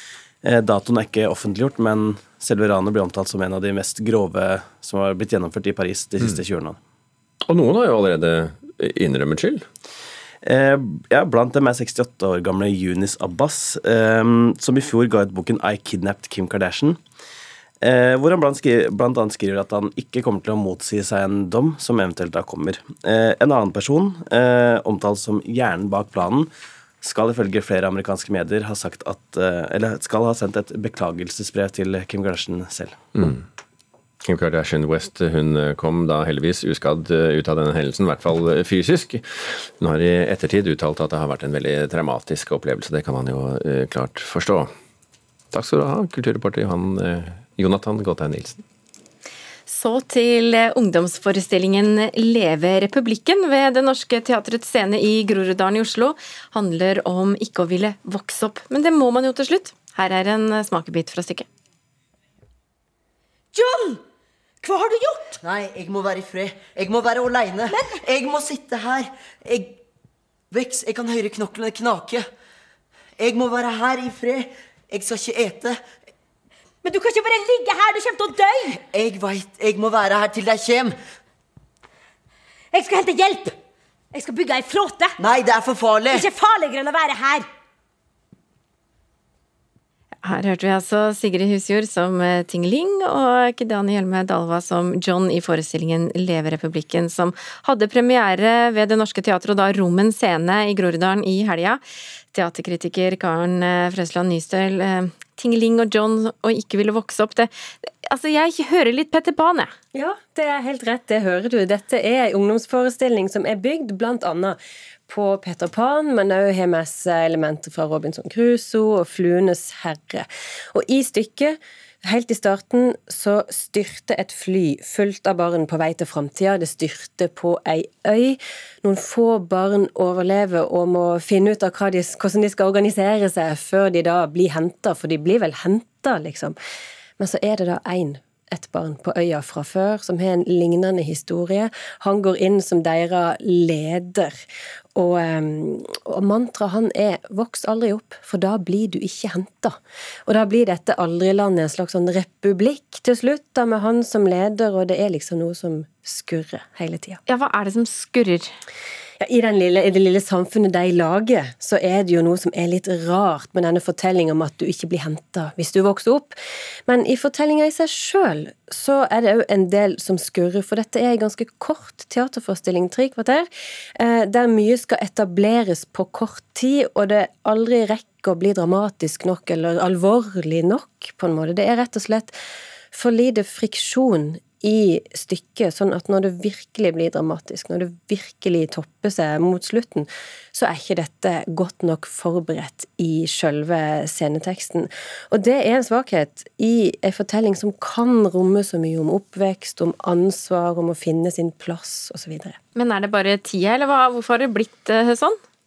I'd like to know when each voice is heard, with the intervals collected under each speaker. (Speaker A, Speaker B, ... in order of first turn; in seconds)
Speaker A: 0.4-6.8, 10.4-17.0, 17.8-26.5, 27.0-33.1
Speaker B: 7.4-9.7, 33.2-33.4, 34.2-44.7, 45.5-48.6
Speaker C: 49.7-61.5, 90.2-109.7, 157.3-158.5, 202.8-205.4
Speaker D: 63.5-64.0, 64.6-65.4, 67.7-68.0, 76.8-78.8, 82.7-83.6, 84.1-85.2, 86.1-87.5
Speaker E: 65.4-69.8, 70.5-72.3, 73.2-75.8, 78.8-81.0, 85.2-86.3
Speaker F: 109.9-136.6, 137.2-144.4, 144.9-157.2, 159.2-166.4, 166.9-182.4, 182.9-202.6